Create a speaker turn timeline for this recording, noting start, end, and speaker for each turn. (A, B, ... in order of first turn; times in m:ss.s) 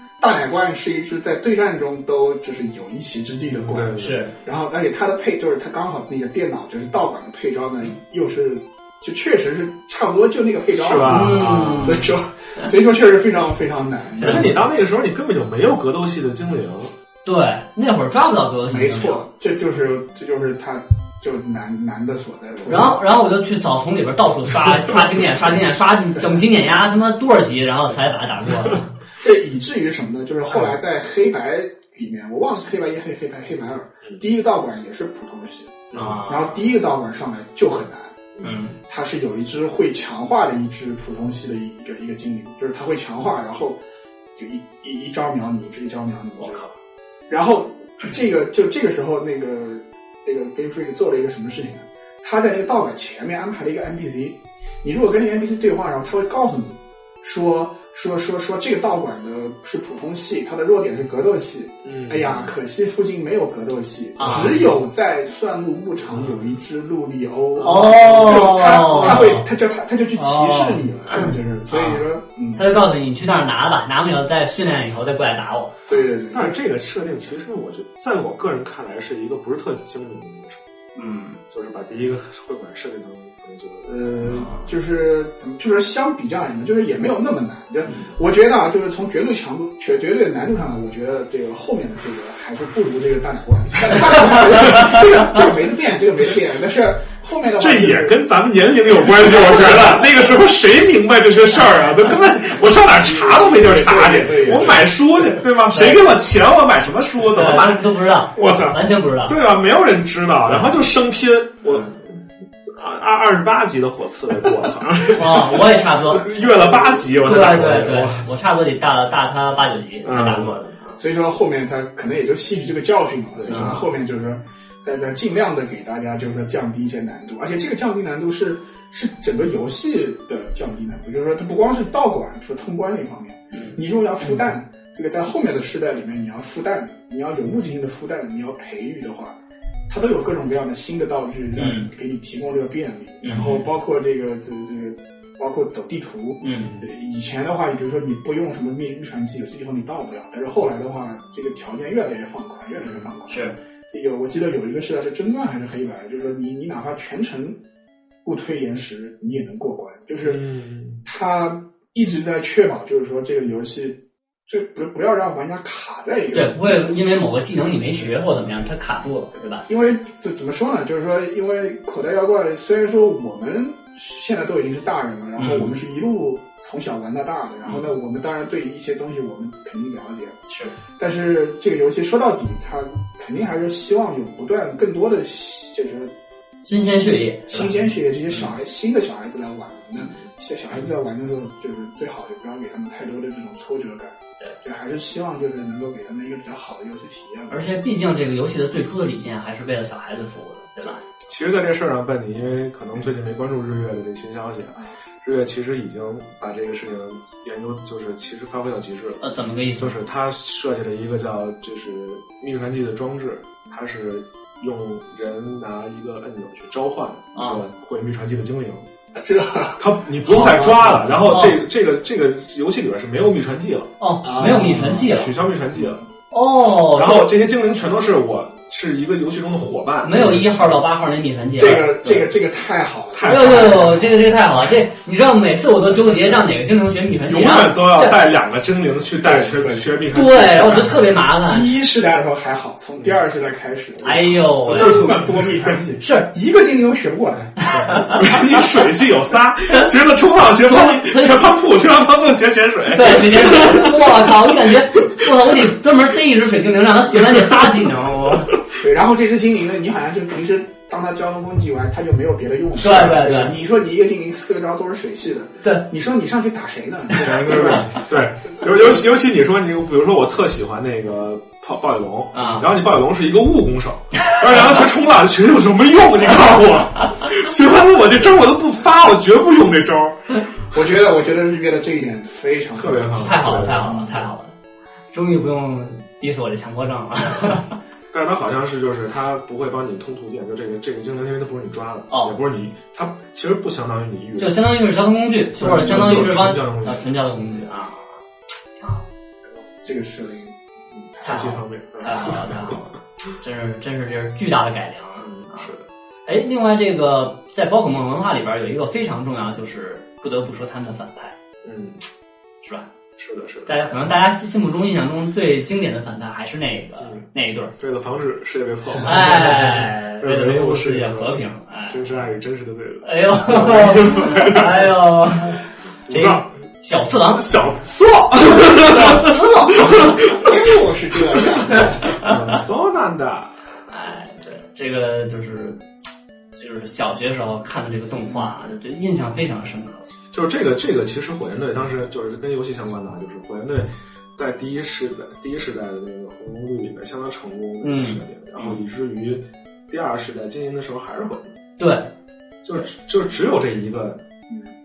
0:00.2-0:14.6 A
0:03.6-0:04.2 B
0:04.0-0:04.3 C
0:10.7-0:12.0 B
0:11.0-0:12.1 C
0:14.2-0:16.9 B
0:14.2-0:14.5 C
0:17.2-0:19.2 C
0:18.6-0:23.0 A
0:22.6-0:28.9 C
0:29.2-0:38.2 A
0:35.9-0:36.3 B
0:35.9-0:36.6 C
0:38.4-0:38.8 C
0:38.9-0:43.8 A
0:44.3-0:46.6 A
0:46.4-0:46.7 C
0:47.3-1:12.6 A
1:01.8-1:02.5 B
1:04.2-1:04.6 C
1:04.2-1:04.5 B
1:07.6-1:08.0 B
1:07.6-1:09.4 C
1:10.2-1:15.9 C
1:15.9-1:16.6 A
1:16.3-1:20.6 B
1:20.9-1:21.4 C
1:21.5-1:24.1 B
1:23.8-1:38.2 A
1:24.2-1:24.7 C
1:37.6-1:58.3 B
1:39.3-1:39.9 A
1:43.0-1:44.9 A
1:45.7-1:46.1 C
1:47.3-1:49.3 C
1:55.1-2:00.8 C
2:00.0-2:00.6 B
2:01.0-2:37.6 A
2:03.4-2:03.8 B
2:03.5-2:03.8 C
2:13.5-2:13.8 C
2:21.6-2:21.9 C
2:23.2-2:23.6 C
2:26.4-2:26.8 C
2:33.3-2:33.5 C
2:38.2-2:40.4 A
2:40.2-2:41.0 B
2:41.0-2:46.8 A
2:46.3-2:49.6 C
2:49.7-3:00.4 A
2:55.4-2:55.7 C
3:00.5-3:00.7 C
3:01.0-3:06.1 A
3:06.6-3:07.8 C
3:07.5-3:17.6 A
3:17.5-3:21.0 C
3:21.3-3:29.2 B
3:29.2-3:30.0 C
3:29.8-3:38.9 B
3:37.3-3:37.6 C
3:39.1-3:41.4 A
3:39.8-3:46.0 B
3:41.3-3:41.6 C
3:44.0-3:45.3 C
3:44.2-3:45.1 A
3:45.7-3:46.0 A
3:46.3-3:47.3 C
3:46.9-3:50.5 B
3:50.0-3:51.9 C
3:51.6-3:54.0 A
3:51.6-3:52.2 B
3:53.1-3:54.0 B
3:53.3-3:58.2 C
3:57.2-4:01.2 B
3:59.2-3:59.9 A
4:00.1-4:01.8 C
4:01.5-4:08.0 A
4:04.0-4:05.2 C
4:04.7-4:05.1 B
4:06.0-4:06.3 C
4:07.6-4:08.2 C
4:07.8-4:14.7 B
4:10.6-4:11.5 C
4:12.9-4:18.6 C
4:18.8-4:27.9 A
4:22.8-4:23.6 C
4:27.2-4:40.7 B
4:27.4-4:28.0 C
4:28.6-4:29.0 A
4:32.3-4:32.7 C
4:40.7-4:44.1 A
4:42.8-4:44.1 B
4:43.2-4:44.5 C
4:45.1-4:47.8 C
4:48.1-4:54.6 B
4:52.1-4:52.3 C
4:54.4-4:58.2 C
4:55.6-4:57.1 B
4:59.5-5:01.5 A
5:01.2-5:02.8 B
5:01.2-5:05.7 C
5:05.2-5:05.9 B
5:06.2-5:11.3 C
5:11.6-5:12.0 B
5:12.6-5:12.9 C
5:13.2-5:13.9 B
5:13.6-5:17.7 C
5:17.0-5:17.2 B
5:17.8-5:25.0 B
5:19.0-5:22.2 C
5:23.0-5:27.5 C
5:26.0-5:26.5 B
5:27.3-5:30.6 B
5:28.6-5:30.5 C
5:30.3-5:32.1 A
5:31.7-5:32.6 C
5:32.1-5:33.6 B
5:33.9-5:35.8 C
5:36.6-5:40.1 C
5:38.2-5:38.5 A
5:40.3-5:51.5 B
5:47.8-5:48.8 C
5:51.8-5:52.1 C
5:52.6-5:54.2 B
5:54.5-5:54.7 A